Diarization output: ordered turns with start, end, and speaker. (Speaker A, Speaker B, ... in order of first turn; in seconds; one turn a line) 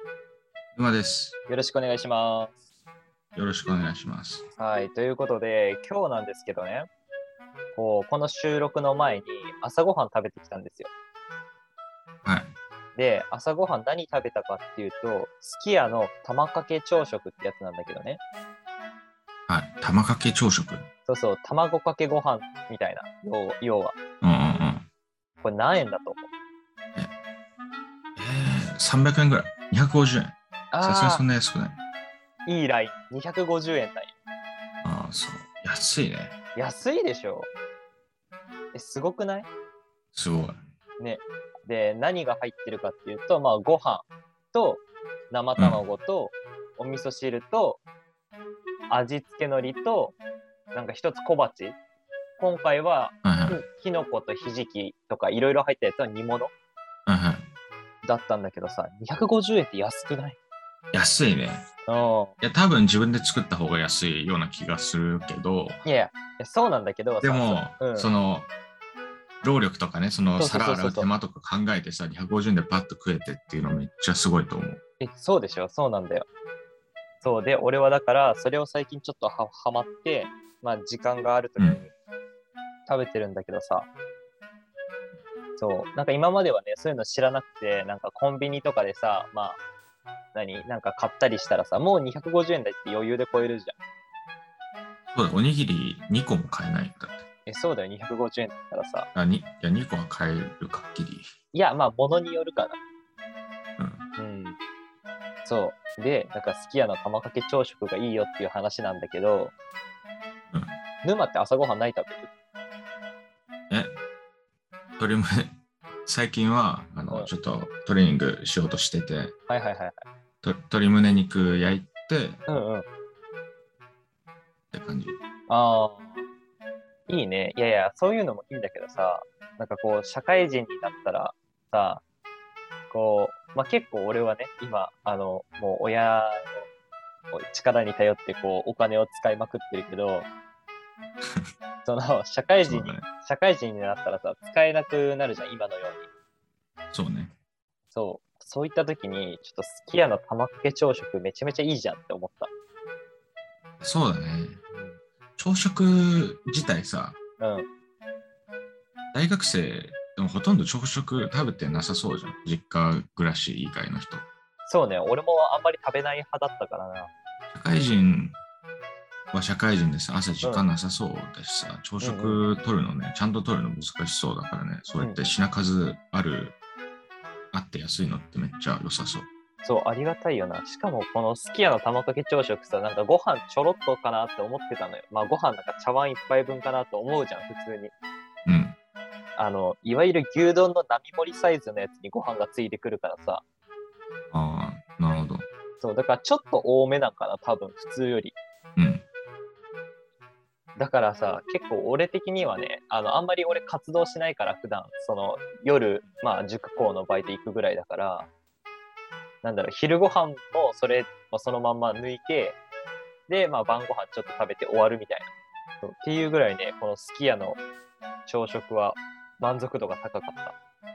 Speaker A: 0.8-1.4
Speaker B: 1.5-2.6
Speaker A: 3.4-4.5
Speaker B: 4.6-6.9
Speaker B: 7.8-10.9
Speaker A: 12.2-12.5
Speaker B: 13.0-18.2
Speaker A: 19.5-20.9
Speaker B: 21.1-24.0
Speaker A: 24.2-24.9
Speaker B: 25.4-26.3
Speaker A: 28.2-31.8
Speaker B: 30.7-31.2
Speaker B: 32.5-34.1
Speaker A: 34.8-36.4
Speaker B: 36.6-37.5
Speaker B: 38.7-39.5
Speaker A: 40.1-40.6
Speaker B: 41.0-47.8
Speaker B: 48.9-50.2
Speaker B: 50.7-51.8
Speaker B: 52.4-56.5
Speaker A: 53.2-53.6
Speaker A: 57.1-57.5
Speaker B: 58.0-60.4
Speaker A: 60.9-61.7
Speaker B: 61.9-62.4
Speaker A: 62.4-65.8
Speaker B: 65.8-68.1
Speaker A: 67.2-68.5
Speaker A: 69.4-74.8
Speaker B: 70.4-71.1
Speaker B: 75.0-76.3
Speaker B: 77.2-81.9
Speaker B: 82.9-83.9
Speaker B: 85.6-89.6
Speaker B: 90.3-93.8
Speaker A: 95.1-97.2
Speaker B: 97.5-99.1
Speaker A: 99.2-101.3
Speaker B: 101.5-102.8
Speaker A: 103.8-104.0
Speaker B: 104.2-104.6
Speaker B: 105.5-109.5
Speaker B: 111.0-112.3
Speaker A: 113.7-114.0
Speaker A: 115.0-119.3
Speaker B: 119.5-120.0
Speaker A: 120.4-122.4
Speaker B: 122.5-122.9
Speaker A: 124.7-125.2
Speaker B: 125.5-126.2
Speaker B: 127.1-132.0
Speaker B: 132.9-136.7
Speaker B: 137.3-140.3
Speaker B: 141.8-146.1
Speaker A: 142.6-143.1
Speaker A: 146.9-147.3
Speaker B: 147.9-152.5
Speaker A: 153.8-154.6
Speaker B: 154.7-155.0
Speaker A: 155.4-157.2
Speaker B: 157.4-157.7
Speaker A: 159.1-164.2
Speaker B: 164.7-167.1
Speaker A: 167.5-168.4
Speaker A: 169.3-176.6
Speaker B: 172.0-172.4
Speaker B: 175.0-175.3
Speaker A: 177.5-179.3
Speaker B: 179.6-187.9
Speaker A: 188.5-188.8
Speaker B: 189.4-193.4
Speaker A: 194.3-195.5
Speaker B: 195.8-198.3
Speaker A: 198.8-199.0
Speaker B: 200.8-208.3
Speaker B: 209.4-212.6
Speaker B: 213.3-215.3
Speaker B: 215.8-217.6
Speaker B: 218.3-220.6